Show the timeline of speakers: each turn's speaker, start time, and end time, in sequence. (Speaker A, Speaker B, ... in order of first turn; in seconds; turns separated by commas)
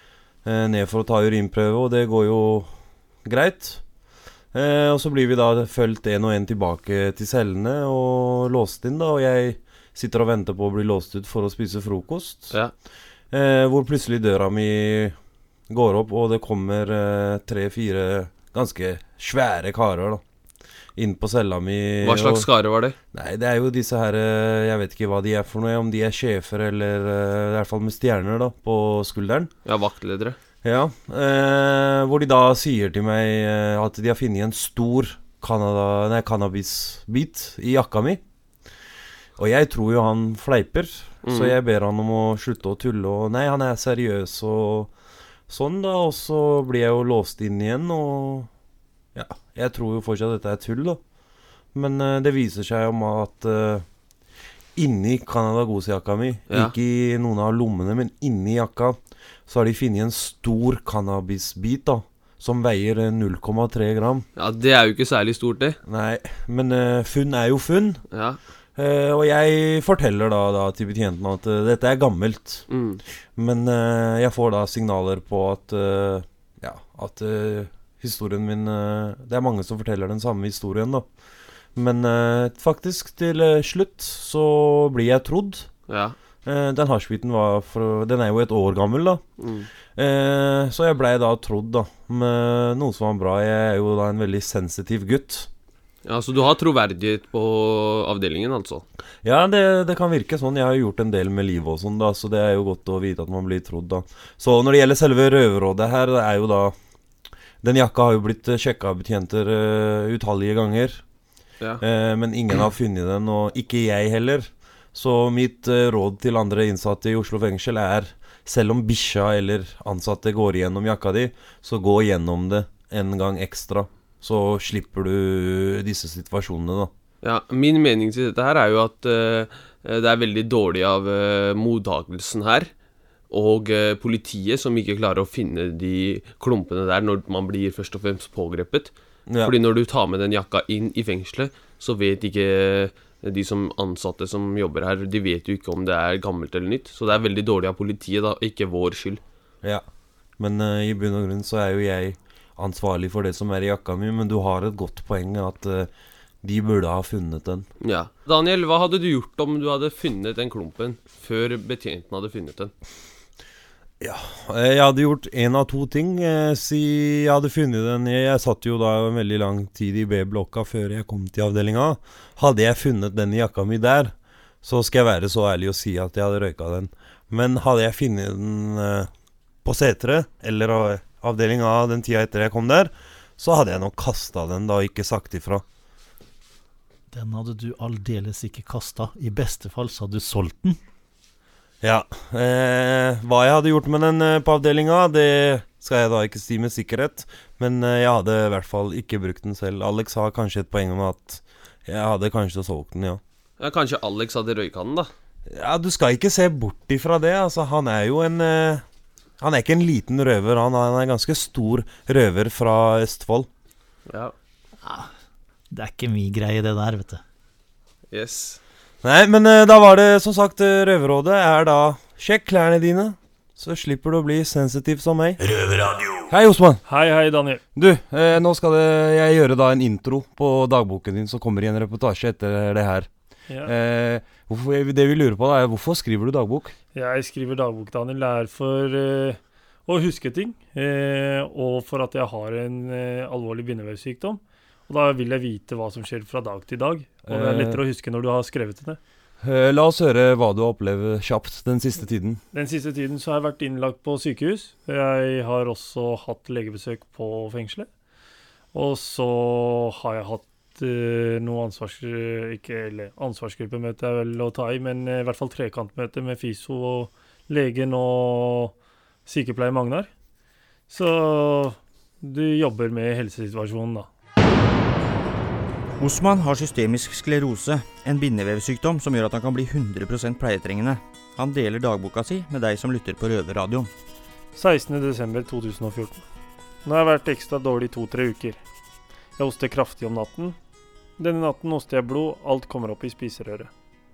Speaker A: 0.4-2.7, Speaker A: 3.2-3.8, Speaker A: 4.5-12.6, Speaker A: 13.3-15.2, Speaker A: 15.7-20.2, Speaker A: 20.9-22.5, Speaker B: 22.0-22.9, Speaker A: 23.1-29.5, Speaker B: 29.6-30.4, Speaker A: 30.6-38.2, Speaker A: 39.4-44.9, Speaker B: 41.2-41.5, Speaker A: 45.5-48.5, Speaker A: 49.1-51.0, Speaker A: 51.7-53.8, Speaker A: 54.8-64.2, Speaker B: 64.4-65.8, Speaker A: 65.9-68.0, Speaker B: 68.1-68.4, Speaker A: 68.8-72.7, Speaker B: 72.7-73.0, Speaker A: 73.3-81.0, Speaker A: 81.7-85.7, Speaker B: 85.9-86.2, Speaker A: 86.4-89.2, Speaker B: 89.4-89.7, Speaker A: 90.0-95.5, Speaker B: 96.0-98.8, Speaker A: 99.2-106.7, Speaker A: 107.6-111.0, Speaker A: 111.8-126.9, Speaker B: 127.2-132.7, Speaker B: 133.3-149.2, Speaker A: 139.3-139.5, Speaker A: 150.4-155.9, Speaker A: 156.4-157.7, Speaker B: 157.8-162.7, Speaker A: 164.0-179.1, Speaker A: 179.6-185.6, Speaker C: 187.1-190.8, Speaker A: 191.8-203.2, Speaker B: 203.6-205.1, Speaker A: 205.5-208.8, Speaker A: 209.4-213.5, Speaker B: 214.1-214.3, Speaker C: 214.8-215.1, Speaker C: 215.7-217.2, Speaker B: 218.1-218.6, Speaker A: 219.0-225.4, Speaker A: 226.3-226.8, Speaker D: 226.8-227.6, Speaker A: 227.7-233.1, Speaker D: 233.5-233.7, Speaker A: 233.6-236.7, Speaker D: 236.9-249.0, Speaker A: 247.2-247.8, Speaker A: 249.4-252.4, Speaker D: 252.5-257.9, Speaker D: 258.7-270.1, Speaker D: 270.9-274.1, Speaker E: 276.0-283.9, Speaker D: 284.6-286.2, Speaker D: 286.8-288.6, Speaker D: 289.4-290.6, Speaker D: 291.2-293.7